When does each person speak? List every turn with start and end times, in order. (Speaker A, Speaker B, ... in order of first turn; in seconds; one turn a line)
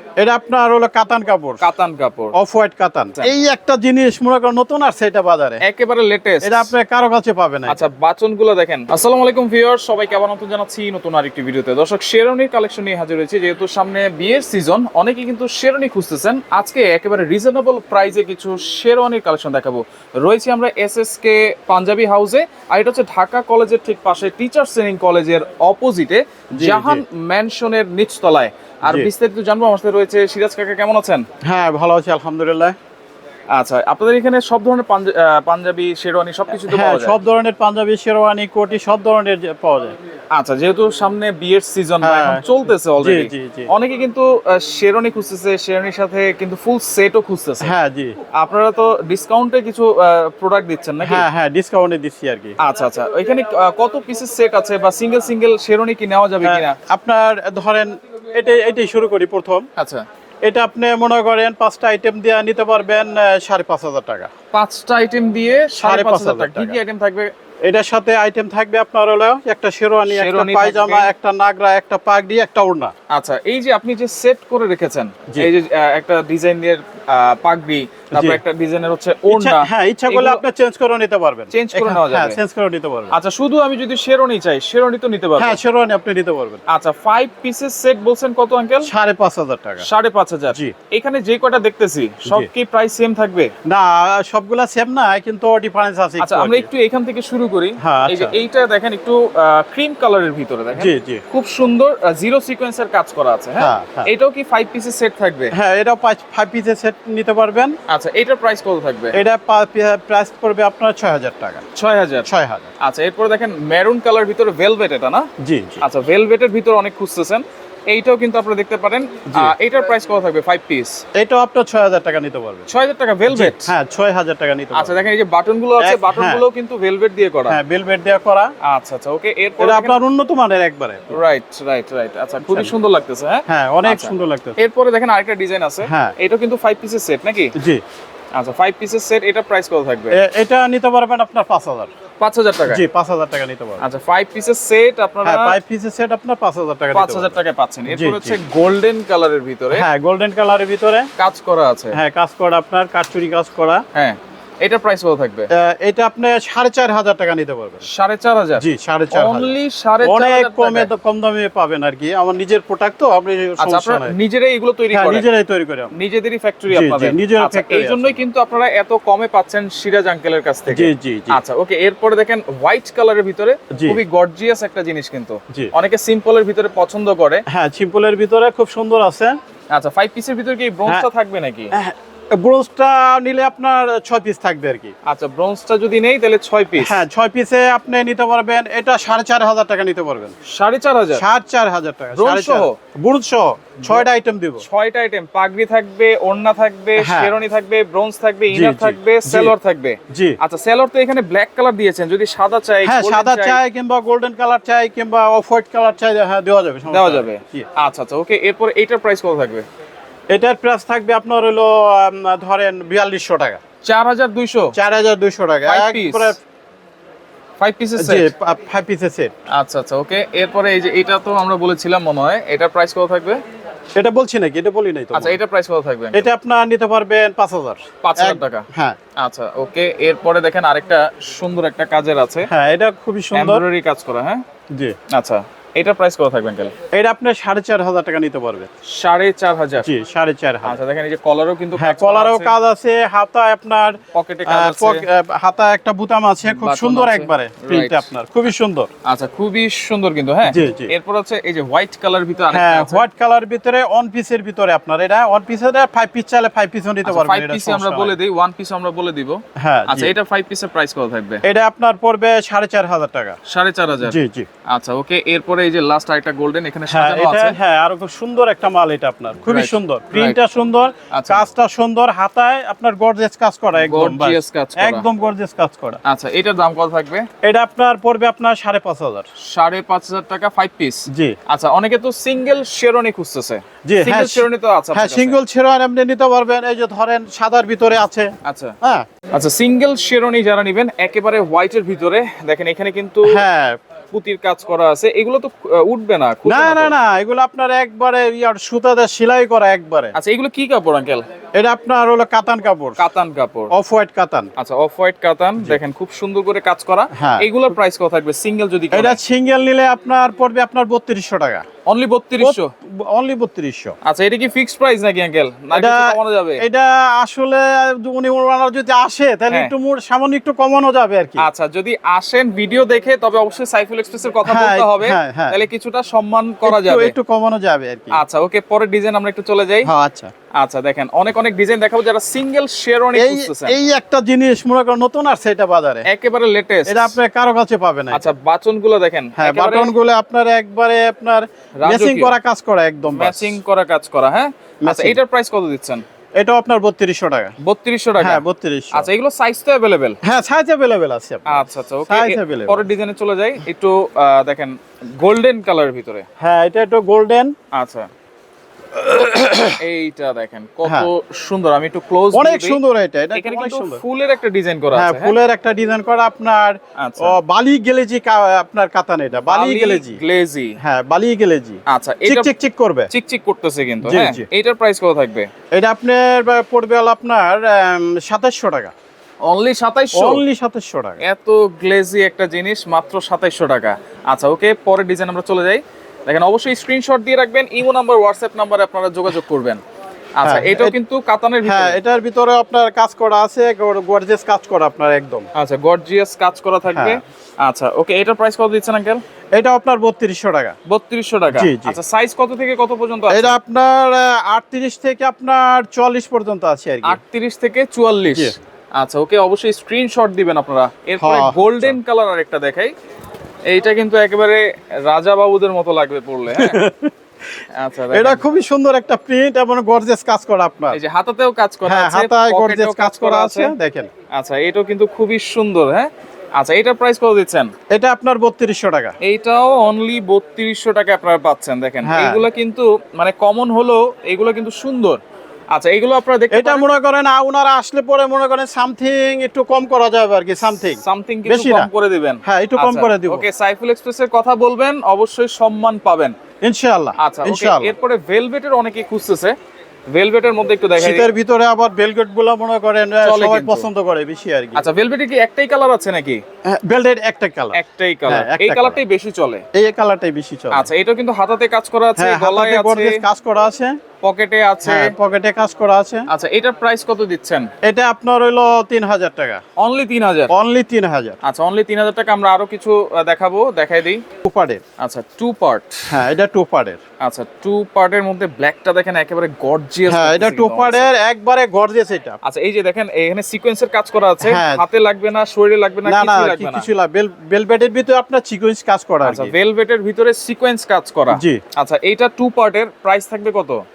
Speaker A: 0.2-1.7
Speaker B: 1.6-2.4
Speaker A: 2.3-5.6
Speaker B: 5.6-6.7
Speaker A: 6.4-7.9
Speaker B: 7.7-31.2
Speaker A: 26.6-27.0
Speaker A: 31.4-32.8
Speaker B: 33.5-37.2
Speaker A: 36.7-40.0
Speaker B: 40.3-47.7
Speaker A: 42.0-42.4
Speaker A: 43.0-43.7
Speaker A: 47.6-48.2
Speaker B: 48.4-51.3
Speaker A: 51.0-52.6
Speaker B: 52.6-56.8
Speaker A: 56.4-59.7
Speaker B: 59.8-60.0
Speaker A: 60.4-64.3
Speaker B: 64.5-67.3
Speaker A: 65.8-66.8
Speaker A: 67.7-72.9
Speaker B: 70.1-71.1
Speaker B: 73.1-80.4
Speaker A: 78.1-78.4
Speaker A: 79.3-83.1
Speaker B: 81.5-82.4
Speaker B: 83.1-85.6
Speaker A: 85.4-86.6
Speaker B: 86.7-88.9
Speaker A: 88.8-89.9
Speaker B: 89.8-93.5
Speaker A: 93.7-96.7
Speaker B: 96.2-105.5
Speaker A: 97.8-98.3
Speaker A: 100.8-101.2
Speaker A: 103.6-104.1
Speaker A: 105.5-107.8
Speaker B: 107.9-109.2
Speaker A: 109.1-111.6
Speaker B: 111.8-112.3
Speaker A: 112.2-112.7
Speaker B: 112.8-115.3
Speaker A: 115.4-115.8
Speaker B: 115.8-121.0
Speaker A: 121.2-122.7
Speaker B: 122.7-123.8
Speaker A: 123.3-125.1
Speaker B: 124.7-127.6
Speaker A: 125.8-126.4
Speaker A: 127.5-128.5
Speaker B: 128.6-130.0
Speaker A: 129.6-131.2
Speaker B: 131.1-137.5
Speaker A: 132.4-132.7
Speaker A: 133.5-134.6
Speaker A: 135.8-136.1
Speaker A: 137.6-137.8
Speaker B: 138.3-140.2
Speaker A: 140.1-141.9
Speaker B: 142.2-142.8
Speaker A: 142.7-143.8
Speaker B: 143.8-145.6
Speaker A: 145.2-148.4
Speaker B: 146.9-149.8
Speaker A: 149.7-151.1
Speaker B: 151.2-152.0
Speaker A: 151.9-153.8
Speaker B: 153.9-155.5
Speaker A: 155.5-157.8
Speaker B: 157.8-160.9
Speaker A: 158.6-164.1
Speaker B: 163.6-165.3
Speaker A: 164.9-165.9
Speaker B: 165.9-177.4
Speaker A: 166.7-168.2
Speaker A: 170.7-171.4
Speaker A: 173.7-174.0
Speaker A: 177.5-179.4
Speaker B: 179.7-181.7
Speaker A: 181.7-184.9
Speaker B: 185.1-187.1
Speaker A: 186.8-190.3
Speaker B: 190.5-191.2
Speaker A: 191.2-194.6
Speaker B: 192.2-192.8
Speaker B: 193.8-194.1
Speaker B: 194.6-203.6
Speaker A: 197.0-197.4
Speaker A: 198.5-199.5
Speaker A: 200.1-200.4
Speaker A: 202.8-207.7
Speaker B: 206.9-209.7
Speaker A: 210.3-213.6
Speaker B: 213.8-214.8
Speaker A: 214.7-216.4
Speaker B: 215.7-216.4
Speaker B: 217.6-218.3
Speaker A: 218.0-219.3
Speaker B: 219.5-223.4
Speaker A: 224.0-225.4
Speaker B: 225.1-226.3
Speaker A: 226.1-229.0
Speaker B: 228.0-228.7
Speaker B: 229.2-232.5
Speaker A: 232.5-233.6
Speaker B: 233.3-234.4
Speaker B: 235.1-236.7
Speaker A: 236.9-238.7
Speaker B: 238.9-239.9
Speaker A: 239.8-240.8
Speaker B: 240.6-242.5
Speaker A: 241.8-248.9
Speaker B: 244.1-245.0
Speaker B: 246.4-248.1
Speaker B: 249.1-253.1
Speaker A: 250.5-250.9
Speaker A: 252.5-258.2
Speaker B: 257.0-261.4
Speaker A: 259.6-260.1
Speaker A: 261.4-263.4
Speaker B: 263.5-264.2
Speaker A: 264.0-264.5
Speaker B: 264.7-267.6
Speaker A: 266.9-276.0
Speaker B: 269.5-270.4
Speaker B: 271.1-271.4
Speaker B: 273.8-275.1
Speaker B: 276.1-277.3
Speaker A: 277.4-279.3
Speaker B: 279.4-285.4
Speaker A: 281.1-281.4
Speaker A: 283.9-288.3
Speaker B: 288.4-288.8
Speaker B: 289.3-293.4
Speaker A: 293.2-293.8
Speaker B: 294.1-296.9
Speaker A: 296.5-300.1
Speaker B: 300.1-301.3
Speaker A: 301.6-303.0
Speaker B: 303.0-303.7
Speaker A: 303.7-304.5
Speaker B: 304.6-309.2
Speaker A: 307.2-307.5
Speaker A: 308.9-311.7
Speaker B: 311.9-312.7
Speaker A: 312.4-313.9
Speaker B: 314.0-316.6
Speaker A: 315.7-321.5
Speaker B: 321.4-327.1
Speaker A: 324.4-325.6
Speaker A: 326.6-328.2
Speaker B: 328.1-329.9
Speaker A: 329.9-330.3
Speaker B: 330.6-333.8
Speaker A: 333.2-336.1
Speaker B: 336.1-337.2
Speaker A: 336.9-338.3
Speaker B: 338.1-339.9
Speaker A: 339.4-343.6
Speaker B: 341.8-342.4
Speaker B: 343.1-346.0
Speaker A: 344.9-345.2
Speaker A: 346.4-347.6
Speaker B: 347.6-350.2
Speaker A: 348.2-349.1
Speaker A: 350.2-352.9
Speaker B: 351.5-356.3
Speaker A: 356.4-357.5
Speaker B: 357.7-358.1
Speaker A: 359.0-359.8
Speaker B: 359.8-362.8
Speaker A: 360.8-361.1
Speaker A: 362.3-364.0
Speaker B: 363.3-365.4
Speaker A: 364.9-370.2
Speaker B: 367.0-367.4
Speaker B: 369.4-370.8
Speaker A: 370.8-373.1
Speaker B: 371.9-372.5
Speaker B: 373.1-375.5
Speaker A: 374.0-374.4
Speaker A: 375.8-378.9
Speaker B: 379.4-380.4
Speaker A: 380.1-381.2
Speaker B: 381.2-389.8
Speaker B: 390.4-392.0
Speaker A: 390.4-391.0
Speaker A: 391.6-395.5
Speaker B: 395.5-399.2
Speaker A: 396.9-397.2
Speaker A: 399.6-400.8
Speaker B: 400.9-403.6
Speaker A: 401.5-402.0
Speaker A: 403.3-407.2
Speaker B: 407.0-412.9
Speaker A: 408.3-408.6
Speaker A: 411.2-412.0
Speaker B: 413.7-416.8
Speaker A: 416.5-421.0
Speaker B: 417.7-418.5
Speaker B: 420.9-423.7
Speaker A: 421.9-424.1
Speaker B: 424.3-427.7
Speaker A: 427.9-429.2
Speaker B: 429.2-435.2
Speaker A: 432.0-432.4
Speaker B: 435.7-436.9
Speaker A: 436.5-441.9
Speaker B: 441.0-446.4
Speaker A: 442.4-443.5
Speaker A: 446.6-447.9
Speaker B: 447.2-449.6
Speaker B: 450.1-451.3
Speaker A: 451.0-454.9
Speaker B: 453.2-453.9
Speaker B: 454.8-456.4
Speaker A: 456.7-459.0
Speaker B: 457.7-459.6
Speaker A: 459.8-460.9
Speaker B: 460.7-463.2
Speaker A: 462.2-464.0
Speaker B: 464.2-465.1
Speaker A: 464.9-466.3
Speaker B: 466.3-467.7
Speaker A: 467.8-469.6
Speaker B: 469.8-470.5
Speaker A: 470.5-471.4
Speaker B: 471.4-474.2
Speaker A: 474.4-474.8
Speaker B: 475.0-476.2
Speaker A: 476.1-477.0
Speaker B: 477.2-481.1
Speaker A: 480.1-482.4
Speaker B: 482.4-486.9
Speaker A: 484.4-484.8
Speaker A: 486.1-489.5
Speaker B: 489.2-493.8
Speaker A: 491.3-491.6